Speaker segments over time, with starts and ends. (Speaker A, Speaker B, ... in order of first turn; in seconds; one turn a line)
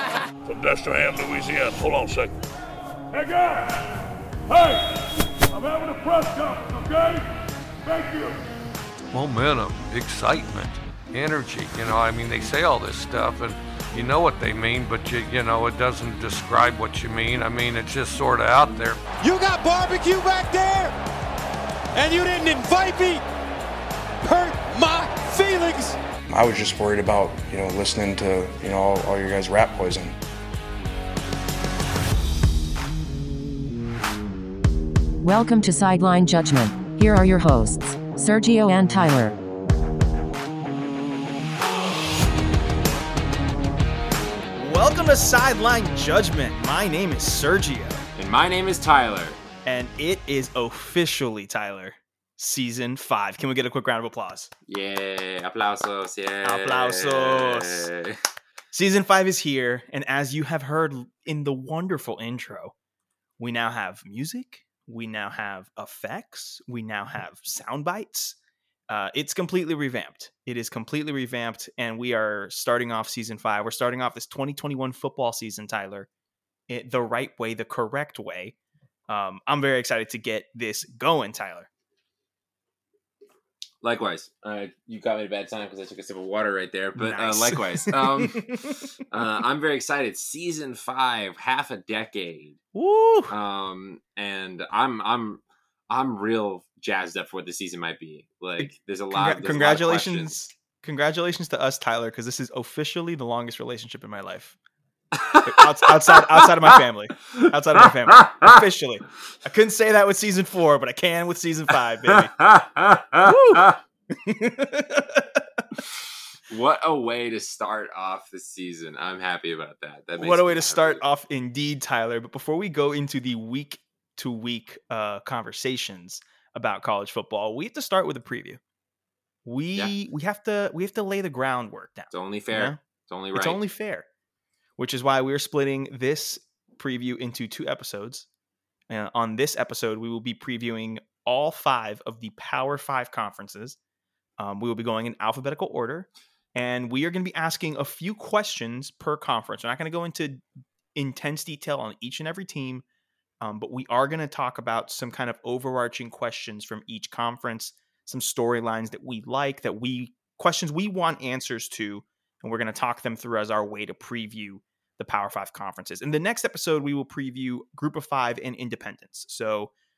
Speaker A: 0.5-2.3
Speaker A: 3.1-3.9
Speaker A: 4.5-4.9
Speaker A: 5.5-7.3
Speaker A: 7.9-8.4
Speaker B: 9.1-19.0
Speaker C: 19.2-20.9
Speaker C: 21.9-23.2
Speaker C: 24.2-26.0
Speaker D: 26.3-30.2
Speaker E: 35.2-39.4
Speaker F: 44.6-48.0
Speaker G: 48.2-49.4
Speaker F: 49.6-54.5
Speaker G: 54.7-58.2
Speaker F: 56.4-57.9
Speaker F: 58.7-62.7
Speaker F: 63.4-68.4
Speaker F: 68.9-76.1
Speaker F: 76.7-78.5
Speaker F: 79.1-81.7
Speaker G: 83.8-92.6
Speaker F: 87.0-88.8
Speaker F: 92.8-93.3
Speaker G: 93.3-100.3
Speaker F: 98.6-104.6
Speaker G: 105.1-106.5
Speaker F: 105.4-112.3
Speaker G: 112.1-113.8
Speaker F: 113.2-115.7
Speaker G: 115.8-121.0
Speaker F: 120.2-128.6
Speaker F: 129.4-132.8
Speaker G: 132.1-133.6
Speaker F: 133.3-134.1
Speaker F: 134.8-138.3
Speaker F: 138.9-143.8
Speaker F: 144.4-150.4
Speaker F: 150.9-152.8
Speaker F: 153.4-169.7